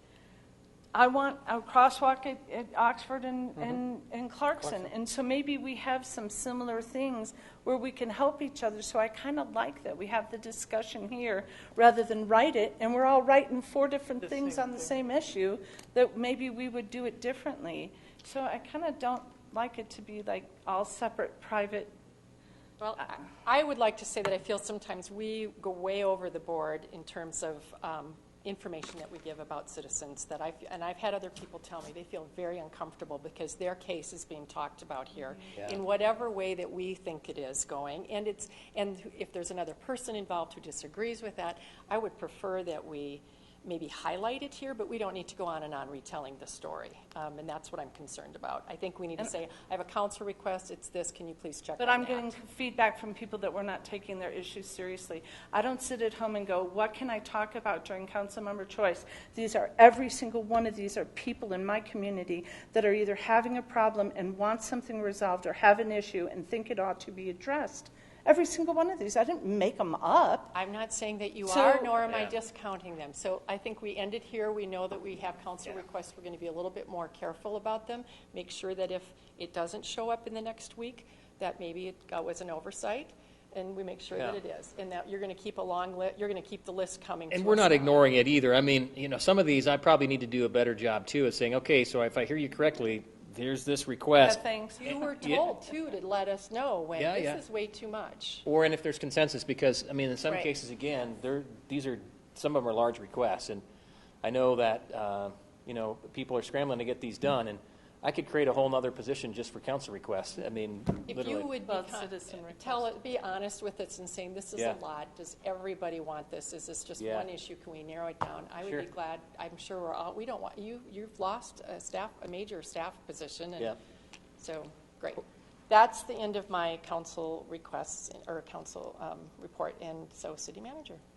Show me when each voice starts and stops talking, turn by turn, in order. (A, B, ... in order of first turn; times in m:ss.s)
0:00.9-0:21.9 A
0:22.8-0:52.3 B
0:51.8-1:10.6 A
1:10.5-1:28.1 B
1:11.4-1:11.9 A
1:12.0-1:12.3 C
1:27.3-1:34.4 C
1:34.2-1:38.4 B
1:34.3-1:34.9 A
1:37.0-1:37.4 C
1:38.4-1:43.6 C
1:44.2-1:51.5 C
1:51.1-2:03.7 B
1:51.6-1:52.9 A
1:57.0-1:57.3 C
1:58.6-1:58.9 C
2:04.4-2:11.0 B